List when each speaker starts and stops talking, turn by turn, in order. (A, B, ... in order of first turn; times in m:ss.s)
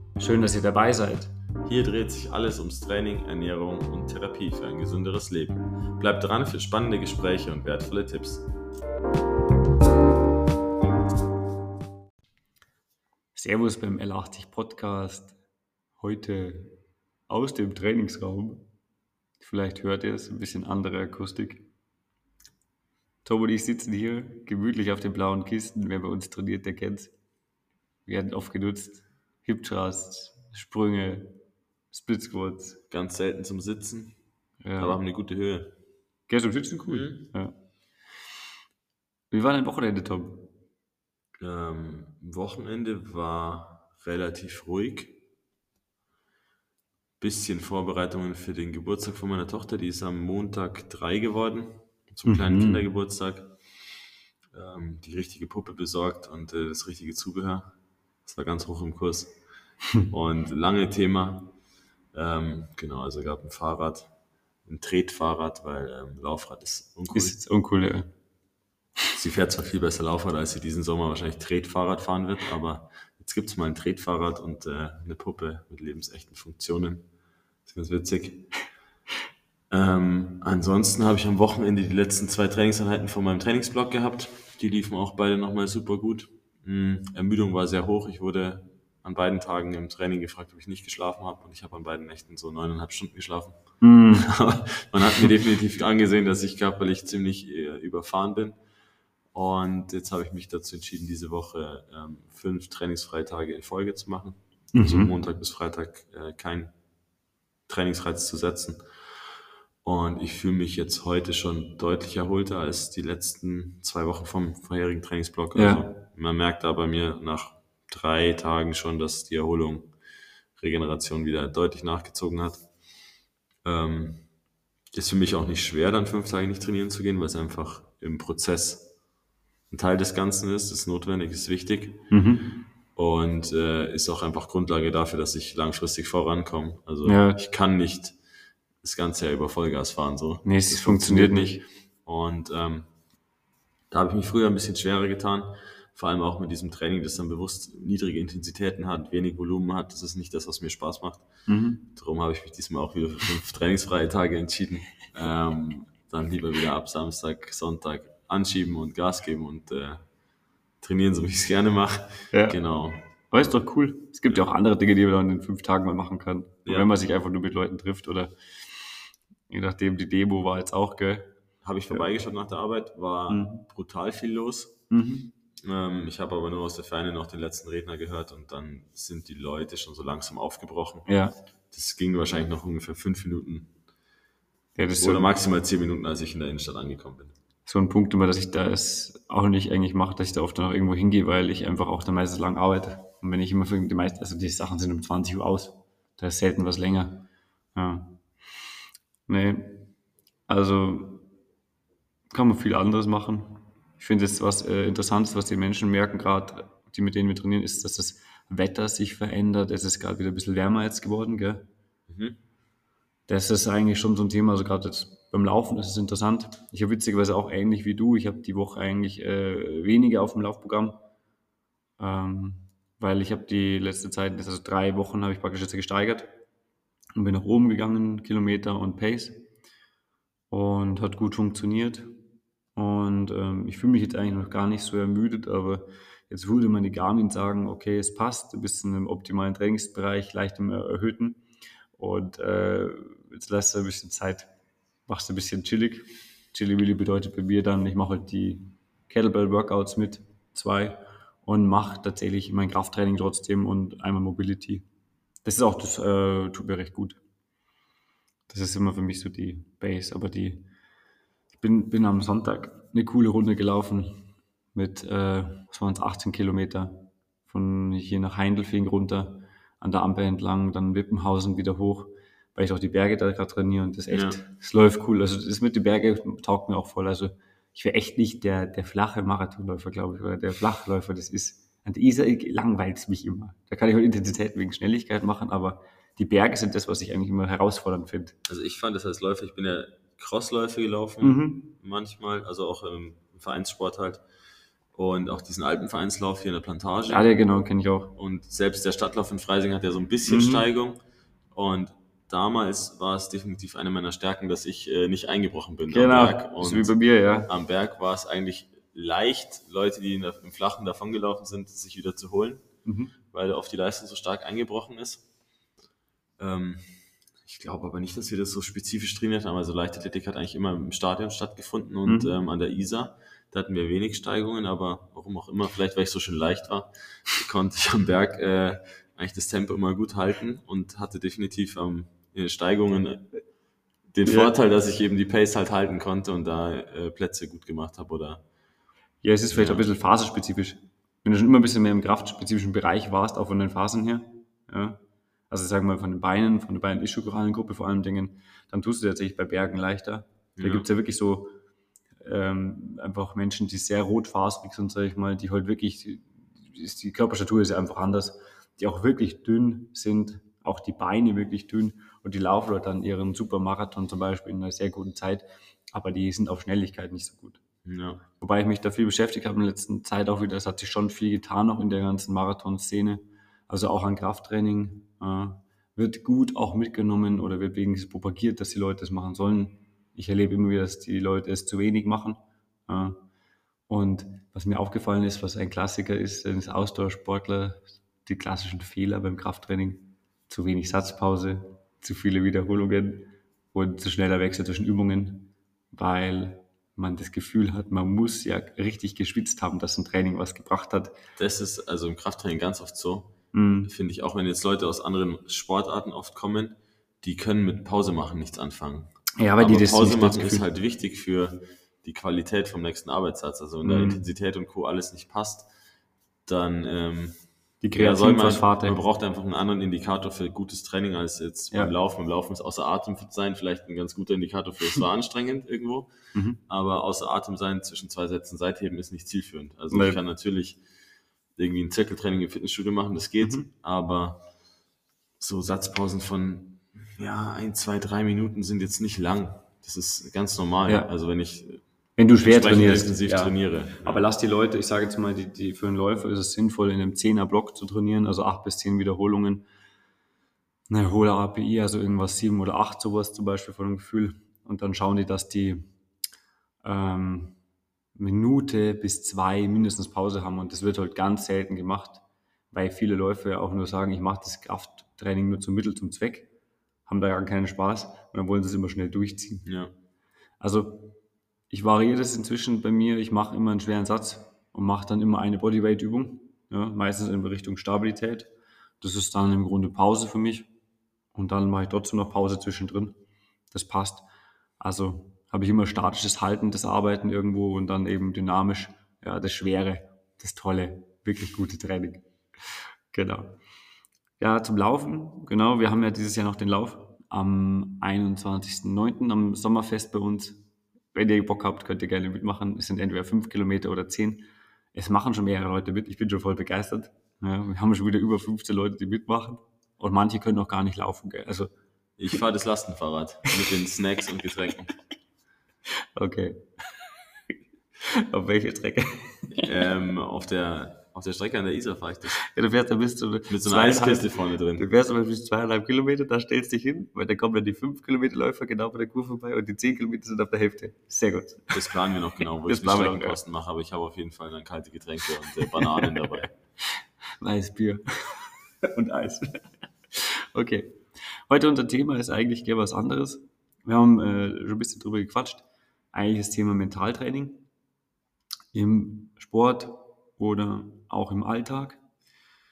0:00.2-0:01.3 A
0:01.6-0:08.4 B
0:13.4-0:15.4 A
0:16.0-0:18.7 A
0:19.4-0:21.7 A
0:23.2-0:27.1 A
0:28.1-0:31.4 A
0:31.9-0:32.8 A
0:32.9-0:34.2 B
0:34.6-0:35.0 A
0:34.8-0:35.8 B
0:36.3-0:37.5 A
0:36.9-0:37.3 B
0:39.3-0:40.5 A
0:41.4-0:45.2 B
0:47.2-0:53.5 B
0:52.3-0:52.9 A
0:54.5-0:57.7 B
0:58.2-0:59.4 B
1:00.0-1:01.5 B
1:02.1-1:04.1 B
1:04.7-1:07.4 B
1:07.1-1:08.1 A
1:09.1-1:17.0 B
1:17.6-1:18.5 B
1:19.7-1:38.6 B
1:33.8-1:34.3 A
1:39.3-1:46.7 B
1:44.7-1:45.1 A
1:47.7-1:48.9 B
1:49.8-1:59.9 B
1:55.6-1:56.0 A
2:00.6-2:02.6 B
2:03.6-2:04.3 B
2:04.9-2:08.9 B
2:09.7-2:12.0 B
2:12.1-2:12.5 A
2:13.0-2:18.2 B
2:17.0-2:17.4 A
2:18.8-2:22.9 B
2:20.4-2:21.6 A
2:23.9-2:31.3 B
2:31.5-2:31.9 A
2:31.9-2:40.0 B
2:40.8-2:43.5 B
2:42.3-2:42.6 A
2:43.3-2:48.8 A
2:49.5-2:51.3 A
2:51.6-2:54.8 B
2:53.3-2:53.7 A
2:54.9-2:55.3 A
2:55.6-3:01.1 B
3:01.1-3:01.3 A
3:01.7-3:03.7 B
3:04.8-3:05.3 A
3:05.0-3:07.4 B
3:07.7-3:18.2 A
3:19.3-3:19.9 A
3:20.5-3:21.2 A
3:22.3-3:31.7 A
3:32.1-3:32.4 B
3:33.3-3:41.0 A
3:42.0-3:46.3 A
3:47.2-3:49.5 A
3:50.5-3:52.2 A
3:52.8-4:01.4 A
4:02.0-4:04.5 A
4:05.1-4:14.8 A
4:15.4-4:17.2 A
4:18.5-4:20.7 A
4:21.5-4:48.4 A
4:34.1-4:34.4 B
4:48.5-4:54.2 B
4:51.2-4:51.7 A
4:55.0-4:57.2 B
4:57.1-4:58.1 A
4:58.2-5:01.0 B
5:00.3-5:00.7 A
5:01.5-5:07.0 B
5:05.9-5:07.5 A
5:07.5-5:12.6 B
5:12.8-5:13.1 A
5:13.3-5:15.2 B
5:16.4-5:33.3 B
5:22.1-5:22.4 A
5:34.1-5:38.4 B
5:34.2-5:34.5 A
5:39.2-5:51.6 A
5:39.5-5:39.8 B
5:50.6-5:50.9 B
5:52.2-6:07.6 A
6:07.8-6:08.2 B
6:08.4-6:23.2 A
6:23.9-6:41.2 A
6:41.4-6:43.3 B
6:43.5-6:43.9 A
6:43.9-6:55.7 B
6:49.4-6:50.7 A
6:53.8-6:54.2 A
6:56.5-6:57.4 B
6:57.8-6:59.0 A
6:57.9-7:06.1 B
7:06.3-7:06.6 A
7:06.7-7:10.8 B
7:09.9-7:10.2 A
7:11.6-7:14.4 B
7:13.4-7:13.7 A
7:15.4-7:21.8 B
7:22.2-7:29.6 A
7:22.4-7:24.2 B
7:30.9-7:35.9 A
7:36.8-7:37.6 A
7:38.2-7:46.5 A
7:47.1-7:49.7 A
7:49.6-7:49.9 B
7:50.6-7:51.2 A
7:51.7-8:00.7 A
8:01.4-8:03.2 A
8:03.7-8:04.3 A
8:04.8-8:12.2 A
8:13.1-8:13.6 A
8:14.4-8:20.6 A
8:21.1-8:31.7 A
8:32.2-8:35.0 B
8:36.2-8:36.7 A
8:38.0-8:39.7 A
8:39.6-8:42.4 B
8:42.4-8:51.9 A
8:43.5-8:44.9 B
8:51.7-8:56.5 B
8:52.7-8:53.4 A
8:55.8-9:07.7 A
9:08.7-9:12.0 A